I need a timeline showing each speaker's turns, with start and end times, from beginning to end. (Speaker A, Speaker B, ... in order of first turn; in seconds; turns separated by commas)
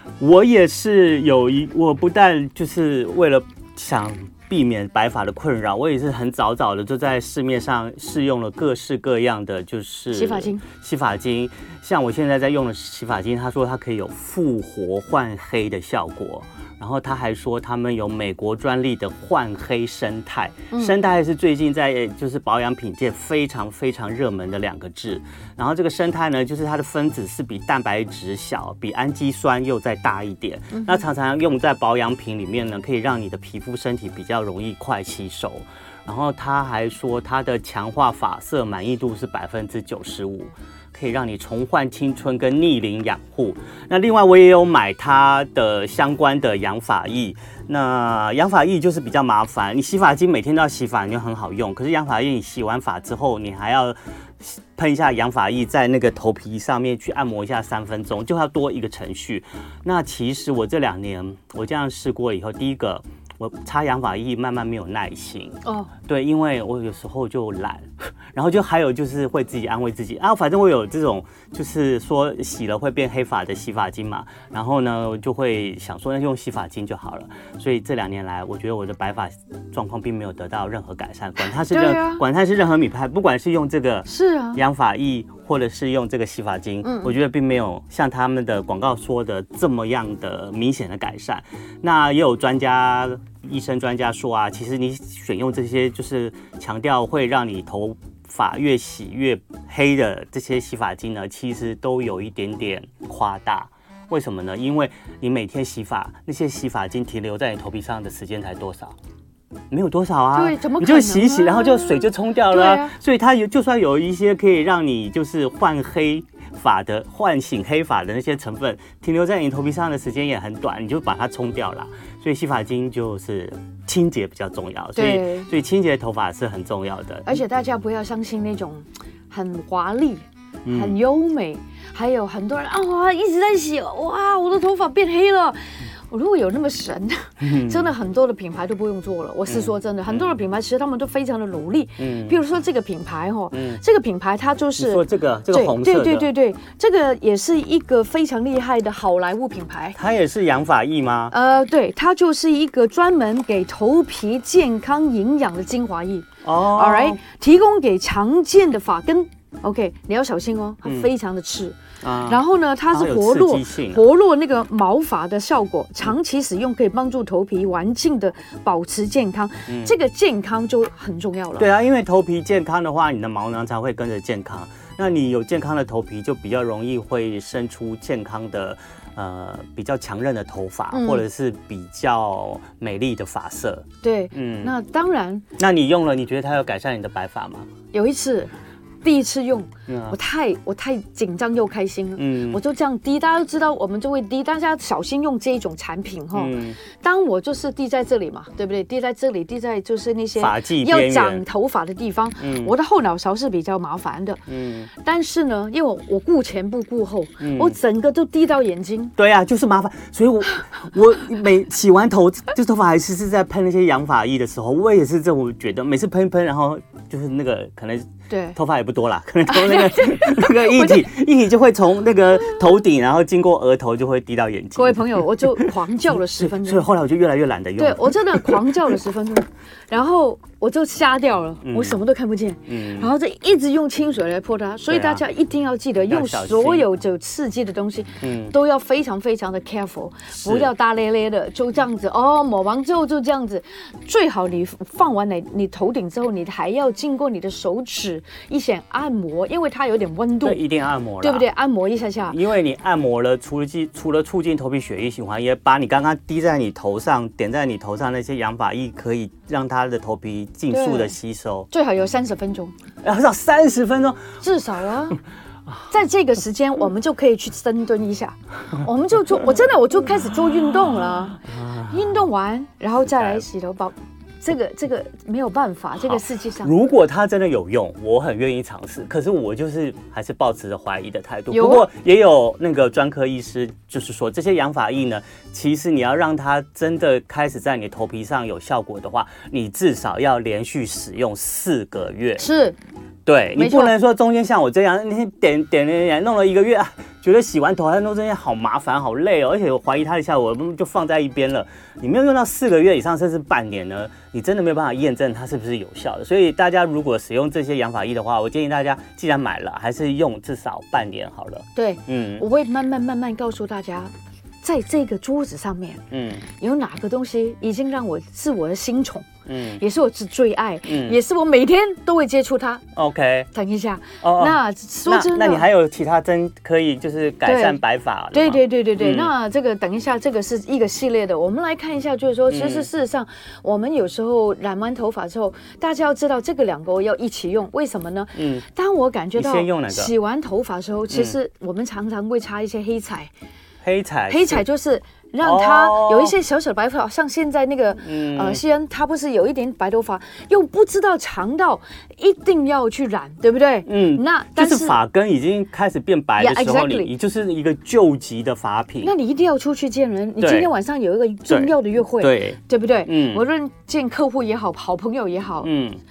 Speaker A: 0.2-109.0, Speaker B: 10.1-10.6, Speaker B: 20.7-21.0, Speaker B: 30.7-31.0, Speaker B: 65.7-65.9, Speaker B: 81.7-82.2, Speaker B: 84.1-84.6, Speaker B: 86.8-87.2, Speaker A: 109.7-127.4, Speaker B: 110.3-112.9, Speaker B: 125.0-125.5, Speaker B: 127.3-150.0, Speaker A: 130.7-131.0, Speaker A: 137.4-137.9, Speaker A: 139.5-140.4, Speaker A: 142.0-142.4, Speaker A: 143.5-143.8, Speaker A: 144.8-146.3, Speaker A: 150.0-151.3, Speaker B: 151.3-171.7, Speaker A: 156.4-157.2, Speaker A: 160.8-161.1, Speaker A: 162.0-164.0, Speaker A: 169.7-170.0, Speaker A: 171.6-184.7, Speaker B: 180.9-181.2, Speaker B: 184.0-185.4, Speaker A: 185.6-187.7, Speaker B: 187.9-188.5, Speaker B: 189.0-204.4, Speaker A: 189.9-190.2, Speaker A: 192.2-192.6, Speaker A: 196.3-196.8, Speaker A: 200.4-201.4, Speaker A: 202.4-202.7, Speaker A: 204.5-204.9, Speaker B: 204.9-209.1, Speaker A: 207.4-207.8, Speaker A: 209.2-228.7, Speaker B: 218.3-218.6, Speaker B: 219.5-221.1, Speaker B: 224.8-226.9, Speaker B: 227.8-250.6, Speaker A: 231.6-232.0, Speaker A: 232.7-233.1, Speaker A: 234.9-235.2, Speaker A: 236.1-236.9, Speaker A: 238.2-238.6, Speaker A: 240.4-240.7, Speaker A: 250.4-251.5, Speaker B: 251.2-252.4, Speaker A: 252.3-261.7, Speaker B: 260.7-261.2, Speaker B: 261.7-262.7, Speaker A: 263.0-264.4, Speaker B: 264.4-265.2, Speaker B: 265.9-276.7, Speaker A: 271.4-272.2, Speaker A: 273.1-273.4, Speaker A: 276.0-292.5, Speaker B: 281.5-281.9, Speaker B: 292.4-292.8, Speaker A: 293.3-312.4, Speaker B: 293.6-293.9, Speaker B: 311.8-316.0, Speaker A: 316.1-316.5, Speaker B: 316.6-322.9, Speaker A: 319.5-319.8, Speaker A: 320.9-321.2, Speaker A: 322.9-323.5, Speaker B: 323.5-325.6, Speaker A: 324.2-329.3, Speaker B: 327.4-327.8, Speaker B: 328.3-343.3, Speaker A: 332.5-332.9, Speaker A: 338.4-338.6, Speaker A: 339.4-340.1, Speaker A: 341.1-341.4, Speaker A: 343.8-344.6, Speaker B: 344.3-355.0, Speaker A: 345.4-346.4, Speaker A: 348.0-348.6, Speaker A: 353.9-359.1, Speaker B: 356.4-357.1, Speaker B: 359.0-365.7, Speaker A: 360.4-360.7, Speaker A: 361.5-363.4, Speaker A: 365.6-366.0